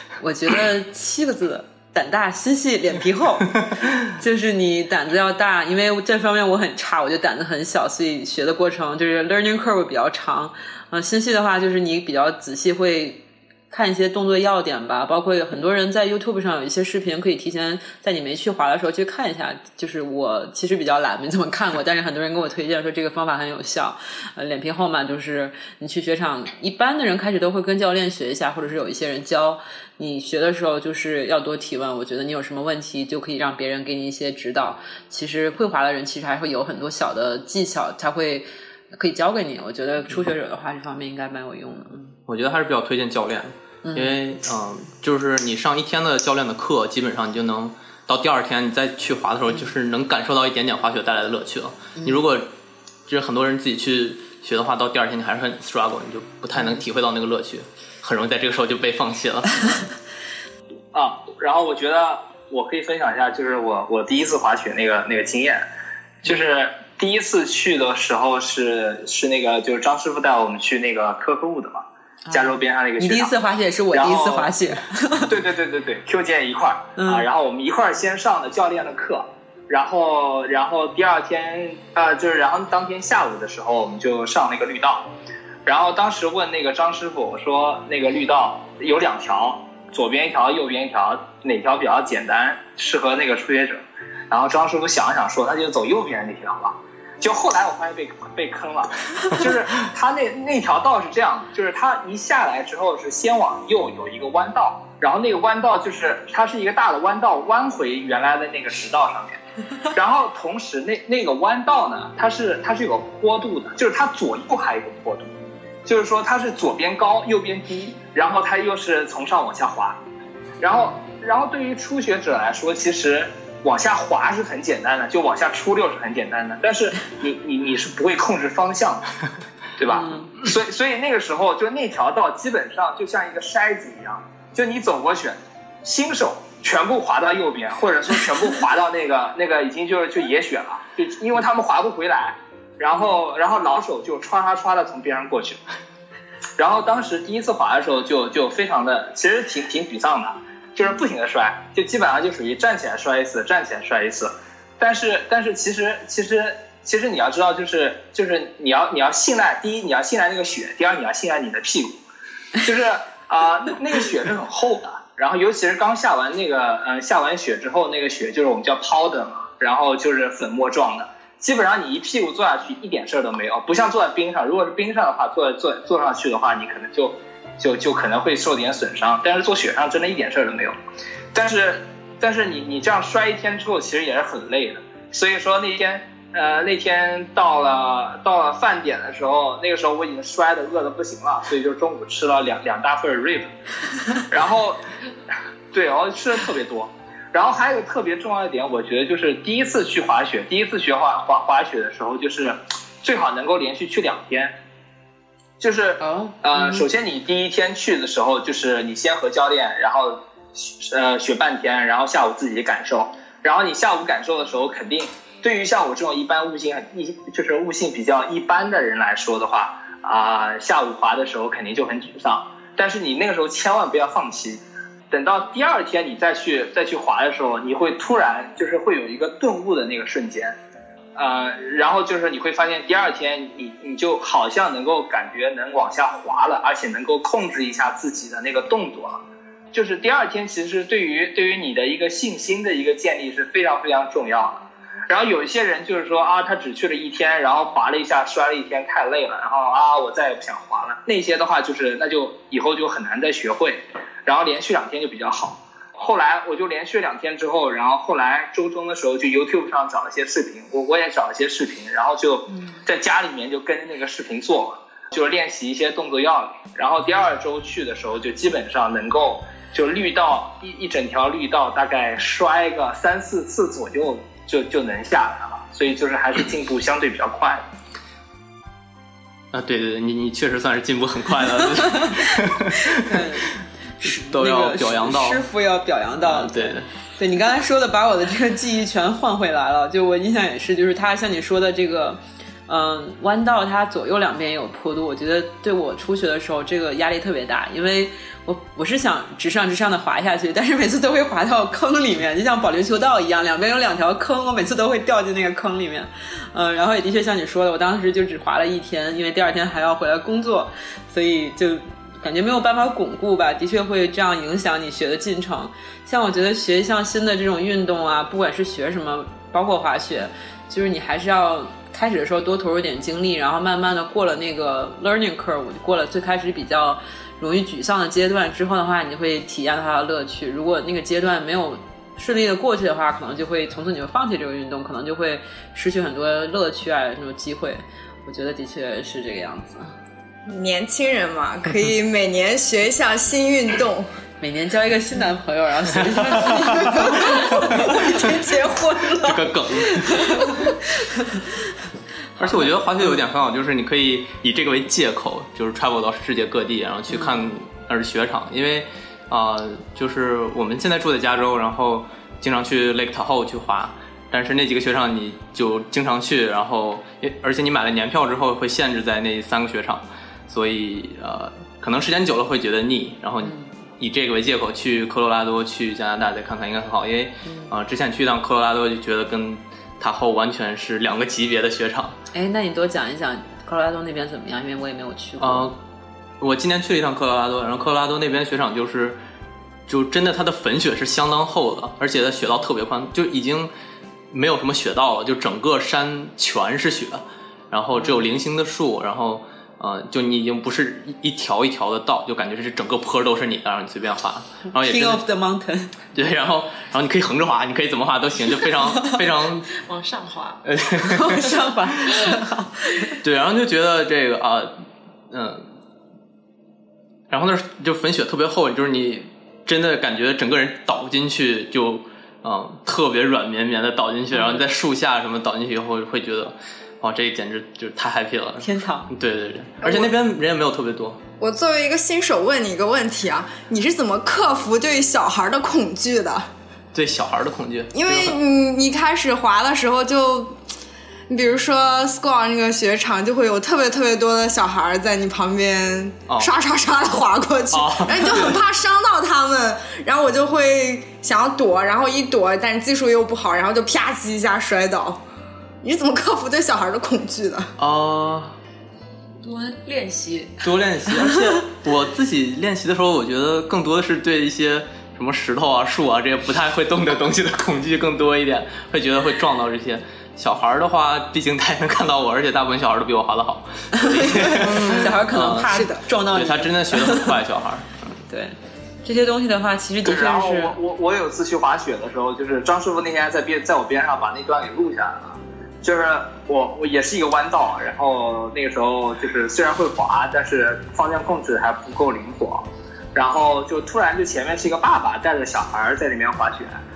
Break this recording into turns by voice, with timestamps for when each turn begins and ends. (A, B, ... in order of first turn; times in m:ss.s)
0:00.2-0:42.1 A
0:42.3-0:52.5 B
0:43.8-0:44.2 A
0:52.0-0:52.2 A
0:53.1-0:59.8 B
0:56.6-0:56.8 A
1:00.9-1:05.6 C
1:06.2-1:13.3 C
1:12.3-1:15.3 A
1:13.9-1:14.5 C
1:15.3-1:25.1 C
1:17.0-1:17.3 A
1:25.6-1:49.4 C
1:49.9-1:55.3 C
1:55.8-2:00.0 C
2:00.6-2:09.1 C
2:09.8-2:25.6 C
2:09.9-2:10.3 A
2:26.6-2:42.0 C
2:42.6-3:00.8 C
3:01.3-3:13.5 C
3:14.2-3:14.8 C
3:15.7-3:24.5 C
3:25.6-3:50.6 C
3:26.0-3:26.8 A
3:51.1-3:59.2 C
3:59.7-4:37.6 C
4:39.5-4:43.5 B
4:41.9-4:42.2 A
4:42.9-5:39.9 A
4:44.0-4:45.4 B
4:46.2-4:46.9 B
5:40.4-5:44.1 D
5:44.4-5:48.0 A
5:46.9-5:49.5 D
5:49.2-5:50.2 B
5:50.0-5:50.5 A
5:52.4-5:52.7 A
5:52.4-6:22.2 B
5:57.1-5:57.5 A
6:13.4-6:13.8 A
6:17.4-6:17.7 A
6:22.3-6:25.7 A
6:25.4-6:25.8 B
6:26.4-6:29.2 B
6:29.9-6:33.7 B
6:34.3-6:45.2 B
6:37.9-6:38.3 A
6:44.8-6:45.9 A
6:46.1-6:49.7 B
6:49.8-6:50.6 E
6:50.6-6:51.5 B
6:51.0-6:53.1 A
6:53.2-6:54.7 B
6:55.3-6:55.6 B
6:57.3-7:11.2 B
7:04.3-7:04.6 A
7:08.6-7:09.1 A
7:09.8-7:10.1 D
7:11.4-7:16.5 D
7:16.9-7:18.3 B
7:17.9-7:20.6 D
7:21.3-7:35.2 D
7:27.7-7:28.5 B
7:35.8-7:37.7 D
7:37.8-7:38.6 B
7:39.4-7:41.1 E
7:40.6-7:57.9 B
7:53.9-7:57.4 A
7:55.7-7:56.0 D
7:58.3-8:00.8 A
8:00.0-8:16.8 C